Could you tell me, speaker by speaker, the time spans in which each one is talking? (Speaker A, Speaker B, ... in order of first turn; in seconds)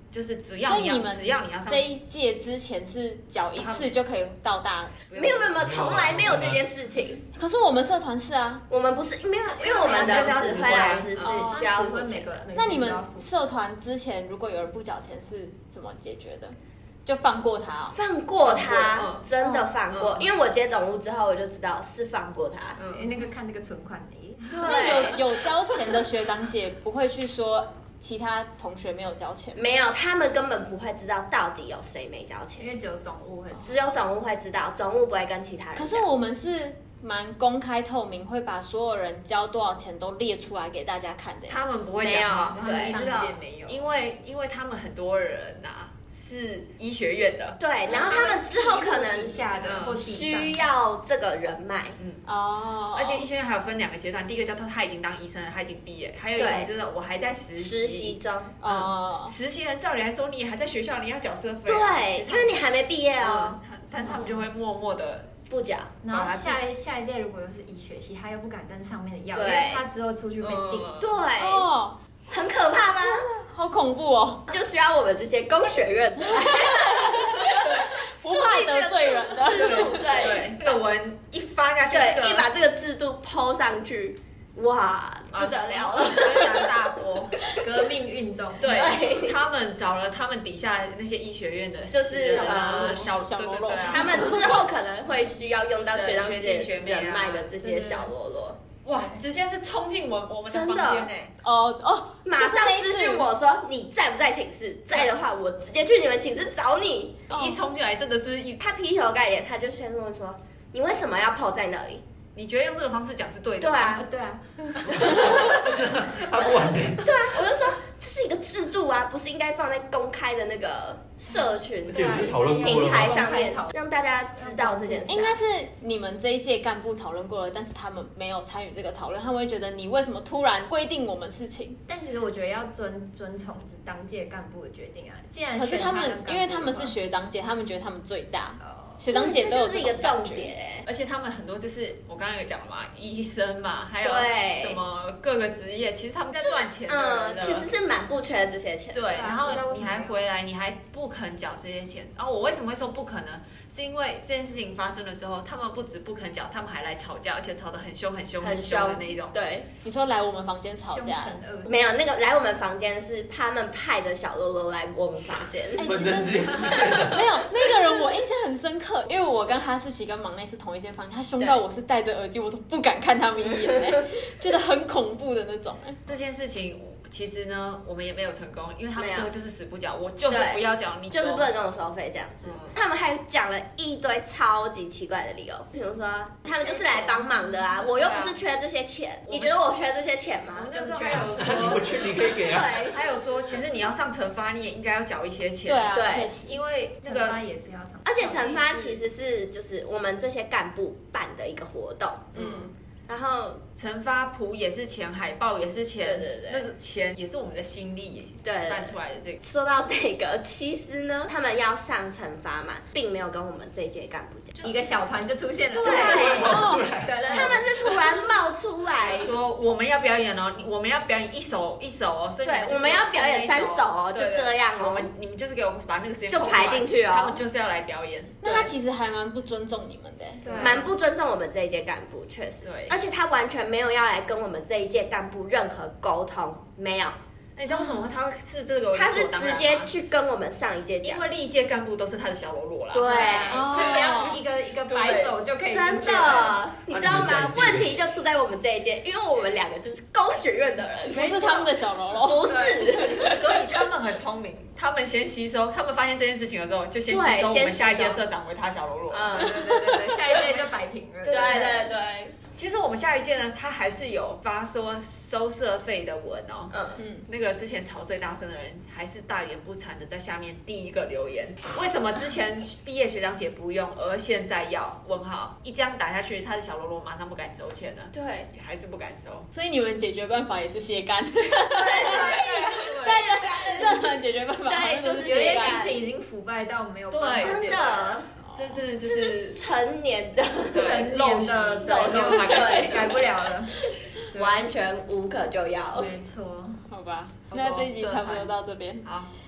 Speaker A: 0.1-1.9, 3.6-3.9, 5.1-5.8, 9.6-11.5, 18.4-19.3, 19.9-20.3, 22.8-23.1, 41.5-48.3, 49.6-50.0, 52.0-52.2, 53.0-62.7, 63.2-65.4, 66.1-66.6, 70.4-71.2, 79.5-82.5, 85.3-87.4, 88.6-94.6, 95.9-97.5, 98.8-101.3, 107.3-108.6, 112.3-114.0, 140.8-147.7, 148.9-159.3, 176.1-181.5, 182.4-182.8, 186.5-188.4, 189.3-189.6, 190.6-197.4, 202.3-202.7, 203.8-209.4, 219.0-228.7, 230.4-230.8, 232.6-233.0, 237.6-239.9, 241.0-245.3, 252.5-261.8, 262.6-279.5, 281.8-283.3, 287.1-289.6, 290.7-293.4, 297.5-298.5, 299.0-299.3
Speaker B: 0.7-5.0, 7.3-8.6, 11.2-11.6, 12.5-18.0, 19.4-19.7, 24.6-29.6, 35.8-41.6, 52.2-53.2, 58.6-59.3, 71.4-72.0, 73.0-74.5, 76.2-80.0, 92.2-94.6, 101.4-103.3, 125.1-131.8, 135.6-140.5, 159.8-161.4, 165.8-176.0, 195.7-196.6, 215.7-216.9, 228.4-230.6, 243.5-244.4, 251.1-252.5, 267.0-267.3, 279.5-285.8, 296.9-299.1
Speaker C: 5.1-7.2, 8.7-12.4, 17.9-22.8, 24.5-25.2, 29.6-32.7, 33.6-36.1, 42.0-43.0, 47.6-52.0, 56.4-56.7, 57.6-58.6, 61.7-63.6, 65.5-65.9, 69.3-69.8, 71.0-71.7, 72.3-73.3, 74.5-80.8, 81.9-86.7, 87.4-87.7, 88.7-89.4, 91.9-93.0, 93.8-98.6, 100.5-101.1, 102.2-107.2, 108.6-112.0, 113.6-114.0, 116.9-125.4, 139.1-140.9, 144.0-144.8, 146.4-149.2, 158.4-159.7, 161.7-166.0, 173.7-174.0, 179.0-179.3, 180.3-193.0, 195.9-196.3, 198.0-203.6, 206.0-206.7, 208.4-214.6, 215.8-216.6, 217.3-219.3, 222.4-225.1, 226.3-227.4, 230.5-237.2, 238.9-241.3, 242.9-243.9, 245.7-253.8, 257.1-258.2, 259.1-260.0, 261.2-262.4, 266.7-267.0, 278.1-278.5, 281.7-286.0, 287.3-288.3, 289.0-291.1, 291.8-293.2, 294.3-296.1
Speaker D: 5.6-6.6, 115.0-117.2, 121.9-123.3, 165.8-167.4, 191.2-192.7, 216.2-217.3, 246.9-248.0
Speaker E: 9.7-13.3, 22.9-25.0, 32.6-33.8, 42.4-43.9, 47.8-50.7, 64.0-64.5, 66.0-70.9, 87.6-89.0, 97.6-98.1, 113.9-115.6, 121.9-123.7, 124.4-125.1, 131.9-136.9, 138.6-139.0, 149.1-150.2, 160.8-161.8, 190.7-191.8, 197.0-198.6, 214.6-217.7, 230.4-230.9, 243.1-246.6, 259.3-261.9, 285.2-288.2, 290.7-293.8, 294.3-294.7, 295.9-296.8